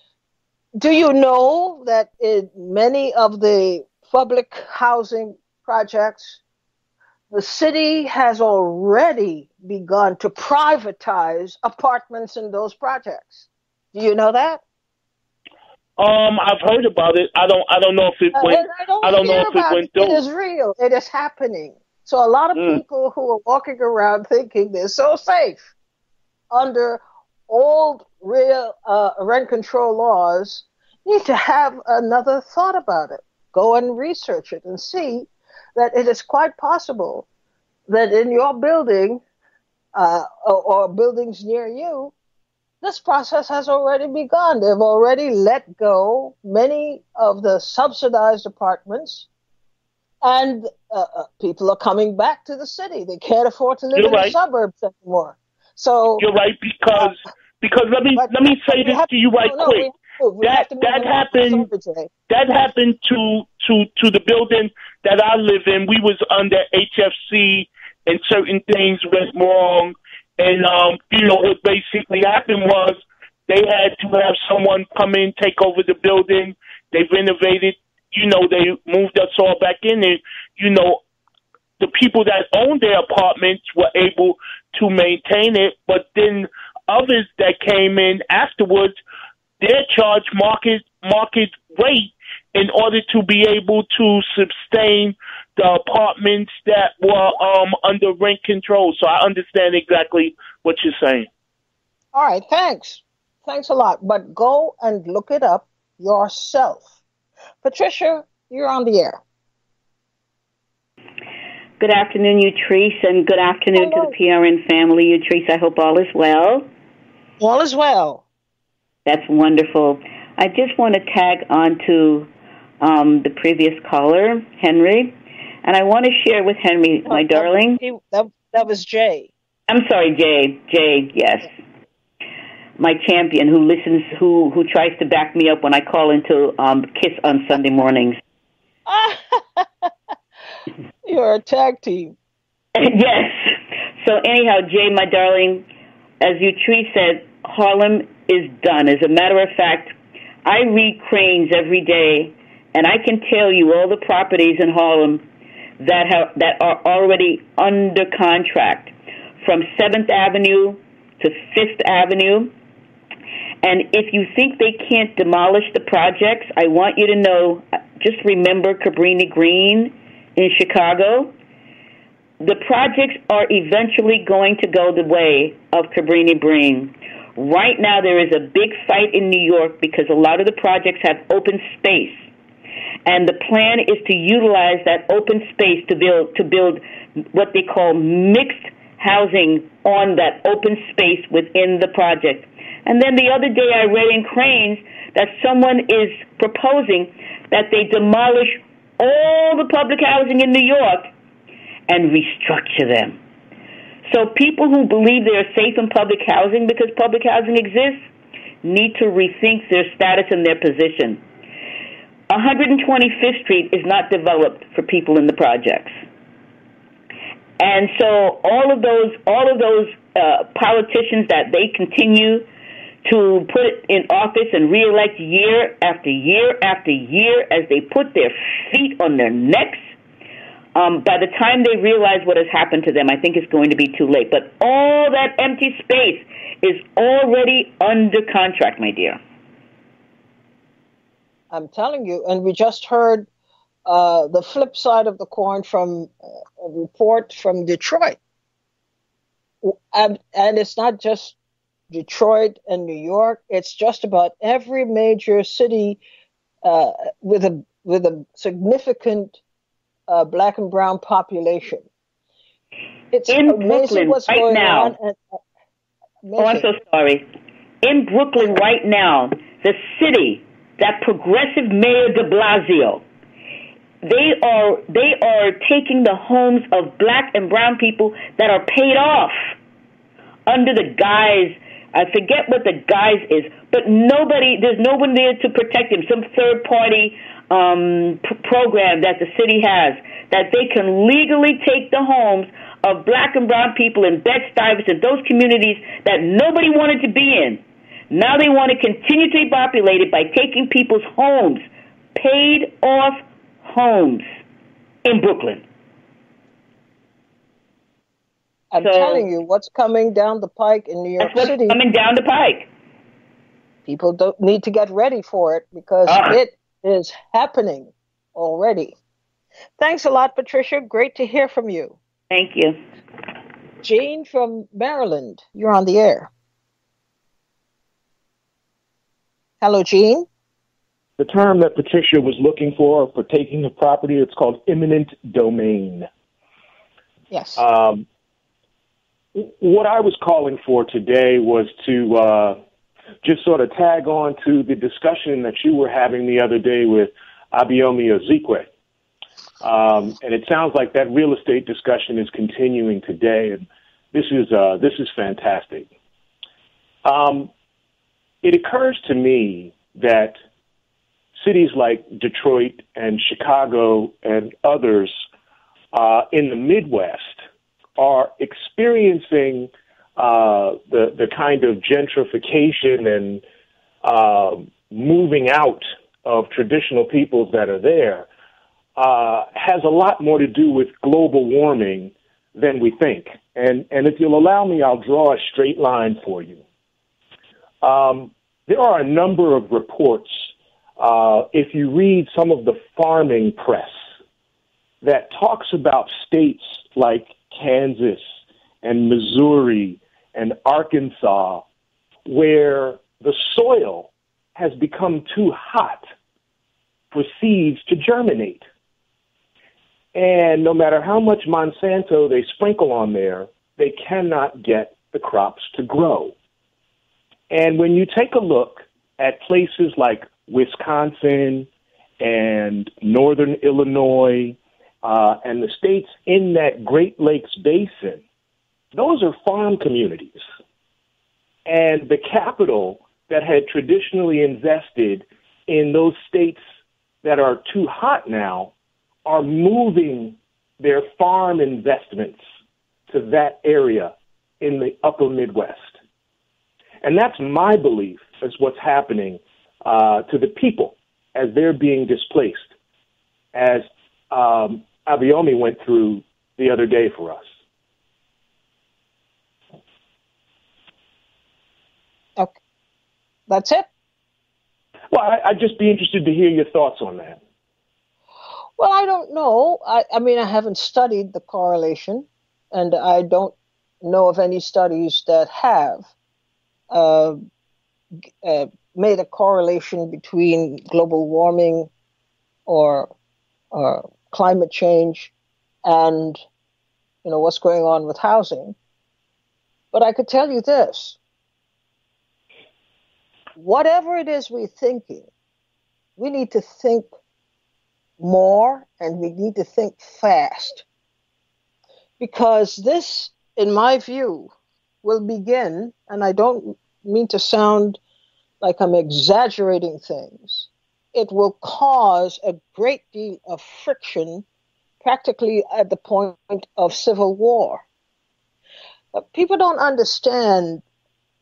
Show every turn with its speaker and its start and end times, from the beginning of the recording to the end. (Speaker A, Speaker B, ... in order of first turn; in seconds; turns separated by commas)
Speaker A: 0.8-6.4, Speaker A: 7.3-14.6, Speaker B: 16.0-20.2, Speaker A: 18.3-25.7, Speaker B: 22.6-22.8, Speaker A: 26.5-37.2, Speaker A: 37.9-39.2, Speaker A: 39.9-42.1, Speaker A: 42.8-49.3, Speaker A: 50.2-56.2, Speaker B: 53.9-54.3, Speaker B: 56.2-59.9, Speaker A: 58.1-62.1, Speaker B: 60.4-61.7, Speaker B: 62.3-81.0, Speaker B: 81.8-88.9, Speaker B: 89.6-101.3, Speaker A: 102.1-106.9, Speaker A: 107.6-109.2, Speaker C: 111.8-116.7, Speaker A: 113.7-114.1, Speaker A: 117.4-118.2, Speaker C: 119.0-122.3, Speaker C: 122.8-127.8, Speaker A: 127.1-129.3, Speaker C: 129.7-131.5, Speaker C: 132.8-138.2, Speaker A: 138.8-139.9, Speaker A: 141.0-142.2, Speaker C: 142.8-145.7, Speaker C: 146.2-149.9, Speaker C: 150.4-155.2, Speaker C: 155.8-162.5, Speaker C: 163.6-171.3, Speaker C: 172.4-182.2, Speaker C: 183.0-186.8, Speaker C: 187.3-201.1, Speaker C: 201.9-203.2, Speaker C: 204.1-208.1, Speaker C: 208.6-211.2, Speaker C: 212.3-216.0, Speaker C: 217.6-222.5, Speaker C: 223.0-229.8, Speaker C: 230.7-239.2, Speaker A: 241.5-243.3, Speaker A: 243.8-248.2, Speaker A: 249.6-251.4, Speaker A: 251.9-256.0, Speaker A: 256.6-259.4, Speaker A: 260.1-261.9, Speaker A: 263.1-265.4, Speaker C: 263.3-264.9, Speaker A: 266.2-266.7, Speaker C: 266.4-267.3, Speaker C: 267.8-273.0, Speaker C: 274.0-279.5, Speaker C: 280.5-304.3, Speaker C: 305.0-305.6, Speaker A: 308.7-311.8, Speaker C: 308.8-309.2, Speaker C: 311.2-312.7, Speaker A: 313.9-318.9, Speaker C: 316.1-316.4, Speaker A: 319.8-321.9, Speaker C: 322.3-322.8, Speaker A: 323.8-326.3, Speaker A: 329.6-330.3, Speaker D: 331.2-336.1, Speaker A: 337.3-337.6, Speaker D: 337.6-338.0, Speaker D: 339.3-342.6, Speaker D: 343.2-348.7, Speaker D: 349.6-355.9, Speaker D: 357.0-357.5, Speaker D: 358.4-360.4, Speaker D: 361.4-365.1, Speaker D: 365.9-367.4, Speaker D: 368.0-373.4, Speaker D: 374.0-378.3, Speaker D: 378.9-386.6, Speaker D: 387.8-394.0, Speaker D: 395.0-398.2, Speaker D: 398.8-401.6, Speaker D: 402.2-406.1, Speaker D: 407.1-408.6, Speaker D: 410.1-416.3, Speaker D: 417.5-421.7, Speaker D: 422.2-428.2, Speaker D: 428.9-430.4, Speaker D: 431.6-436.6, Speaker D: 437.2-438.7, Speaker D: 439.2-442.4, Speaker D: 443.1-446.0, Speaker D: 447.0-452.6, Speaker D: 453.5-457.5, Speaker A: 463.5-463.9, Speaker D: 465.1-467.4, Speaker A: 468.8-476.1, Speaker A: 476.9-477.4, Speaker A: 478.4-481.9, Speaker A: 482.7-483.1, Speaker A: 483.7-485.3, Speaker A: 485.8-486.4, Speaker A: 487.2-488.8, Speaker A: 489.9-491.2, Speaker A: 493.6-495.3, Speaker A: 496.2-497.1, Speaker A: 498.2-500.8, Speaker A: 502.2-504.5, Speaker A: 505.0-508.0, Speaker A: 508.6-514.4, Speaker A: 515.0-517.8, Speaker A: 519.1-520.8